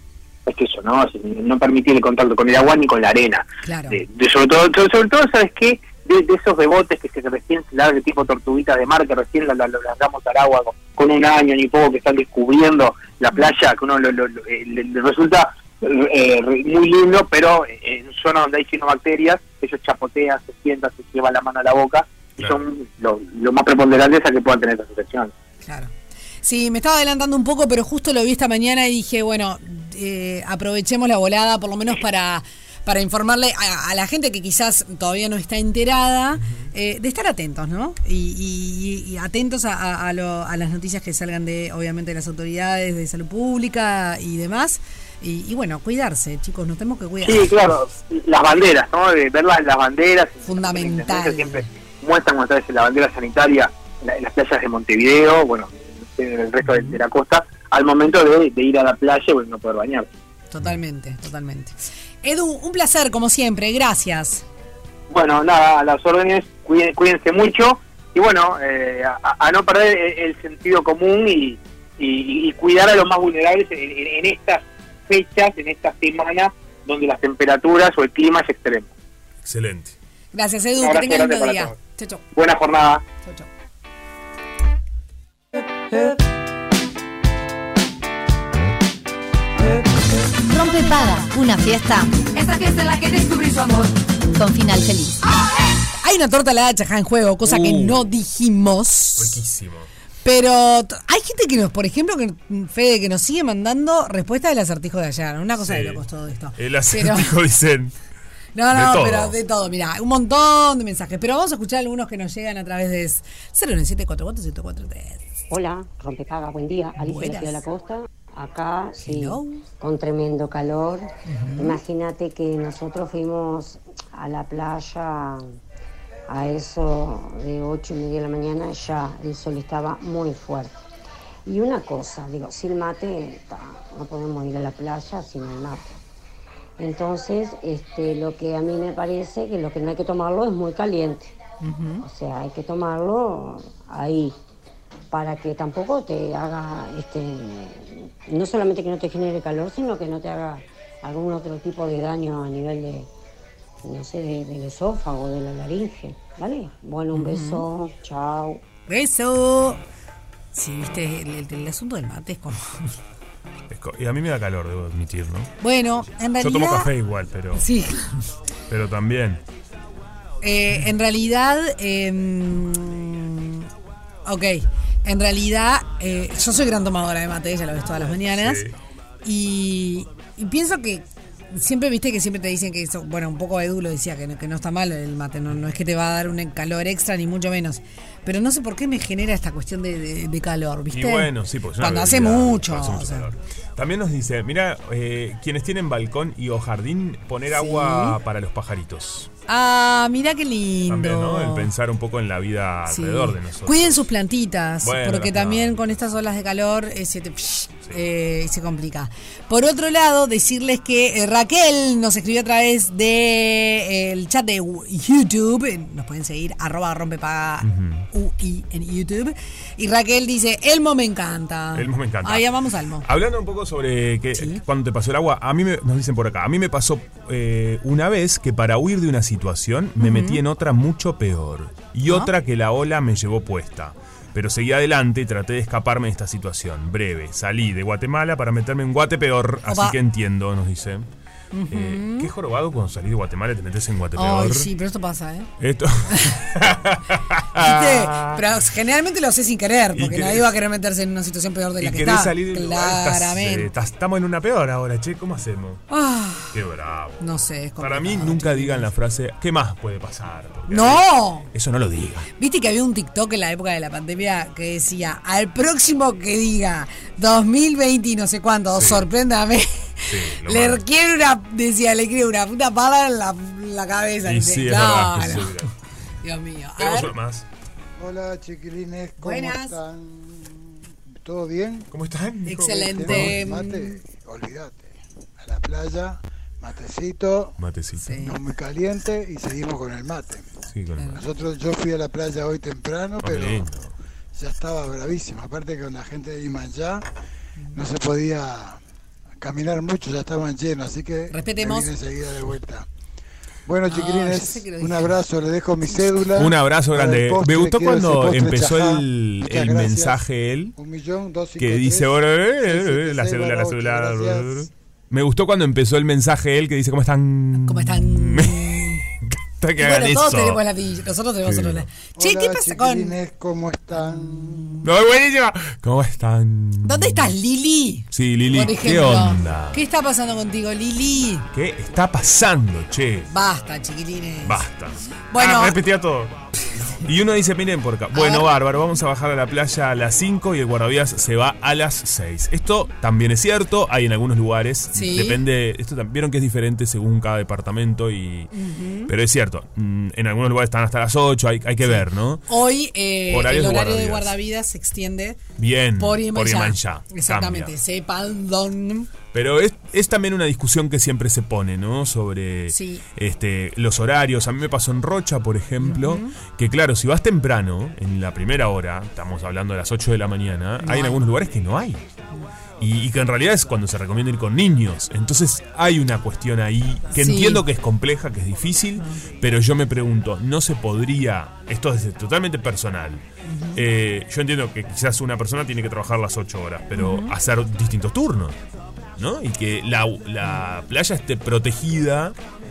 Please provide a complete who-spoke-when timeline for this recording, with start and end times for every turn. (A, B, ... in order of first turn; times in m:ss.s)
0:00.4-0:25.3 A
0:03.6-0:04.0 B
0:25.6-0:25.9 B
0:26.4-0:47.6 B
0:47.2-1:00.1 A
0:50.4-0:51.6 B
0:56.6-0:57.0 B
1:00.5-1:04.4 B
1:05.1-1:18.9 A
1:19.4-1:19.9 C
1:20.3-1:22.2 B
1:20.8-1:21.8 A
1:22.3-1:23.0 A
1:23.2-1:23.5 B
1:30.5-1:32.3 D
1:32.3-1:33.9 E
1:34.3-1:35.2 D
1:35.2-1:35.7 E
1:36.0-1:39.4 B
1:37.4-1:38.1 C
1:39.2-1:39.9 C
1:40.2-1:47.4 B
1:45.6-1:46.0 C
1:46.6-1:47.9 C
1:48.6-1:55.2 B
1:48.7-1:49.4 C
1:55.5-2:05.6 F
1:57.0-1:57.6 B
1:59.0-1:59.6 B
2:01.3-2:01.8 B
2:06.3-2:10.8 F
2:11.4-2:16.0 F
2:16.8-2:21.3 F
2:21.6-2:22.0 B
2:22.0-2:24.3 F
2:25.1-2:33.1 F
2:33.8-2:38.6 F
2:37.1-2:37.6 B
2:38.9-2:39.8 B
2:40.5-2:42.9 B
2:43.7-2:45.5 C
2:45.6-2:46.9 B
2:46.4-2:47.6 C
2:47.5-2:48.2 B
2:48.7-2:49.4 C
2:50.4-2:53.7 B
2:54.2-2:58.6 B
2:57.9-2:58.8 C
2:59.2-3:13.3 B
3:10.9-3:19.3 C
3:17.5-3:18.2 B
3:19.5-3:21.7 B
3:20.9-3:24.0 C
3:22.9-3:43.1 B
3:24.8-3:26.0 C
3:37.6-3:38.1 C
3:41.7-3:42.5 C
3:43.0-4:01.1 C
3:44.3-3:44.6 B
3:50.0-3:50.4 B
3:59.6-4:00.0 B
4:01.5-4:02.3 B
4:01.7-4:04.7 C
4:04.1-4:05.5 B
4:05.6-4:08.5 C
4:06.1-4:06.4 B
4:07.5-4:13.7 B
4:09.9-4:10.6 C
4:11.8-4:15.8 C
4:15.9-4:16.5 B
4:16.5-4:17.2 C
4:17.2-4:18.9 B
4:17.8-4:22.3 C
4:20.7-4:21.5 B
4:22.4-4:35.6 B
4:28.7-4:29.1 C
4:30.1-4:30.8 C
4:34.2-4:35.7 C
4:36.2-4:37.1 B
4:36.8-4:37.4 C
4:38.0-4:40.6 G
4:39.2-4:39.8 B
4:41.2-4:41.9 G
4:41.9-4:43.4 C
4:42.4-4:44.0 B
4:42.6-4:47.6 G
4:47.6-4:48.2 C
4:48.0-4:48.4 B
4:48.2-4:50.5 G
4:50.7-4:51.2 C
4:51.0-4:51.2 B
4:51.1-4:53.7 G
4:53.2-4:53.9 C
4:54.3-4:57.0 G
4:57.7-4:58.8 G
4:59.4-5:02.9 G
5:01.3-5:01.9 B
5:03.6-5:10.2 G
5:03.9-5:05.1 B
5:06.4-5:10.8 C
5:10.8-5:14.6 G
5:11.6-5:20.6 C
5:17.6-5:19.0 B
5:19.8-5:23.2 B
5:21.4-5:21.9 C
5:22.2-5:24.8 G
5:24.0-5:24.8 B
5:24.8-5:27.3 C
5:26.8-5:31.4 B
5:28.1-5:29.8 C
5:31.5-5:33.3 C
5:33.3-5:34.6 B
5:34.4-5:36.4 C
5:35.3-5:35.8 B
5:37.0-5:48.5 C
5:38.1-5:38.5 B
5:44.9-5:45.4 B
5:48.5-5:49.1 B
5:49.1-5:52.4 C
5:51.8-5:55.4 B
5:53.3-5:54.4 C
5:55.6-5:57.7 C
5:56.0-5:59.1 B
5:59.3-6:12.0 C
6:02.7-6:03.0 B
6:05.8-6:06.4 B
6:10.8-6:11.2 B
6:12.8-6:28.6 C
6:17.1-6:17.6 B
6:23.4-6:23.8 B
6:26.9-6:27.3 B
6:29.2-6:32.4 C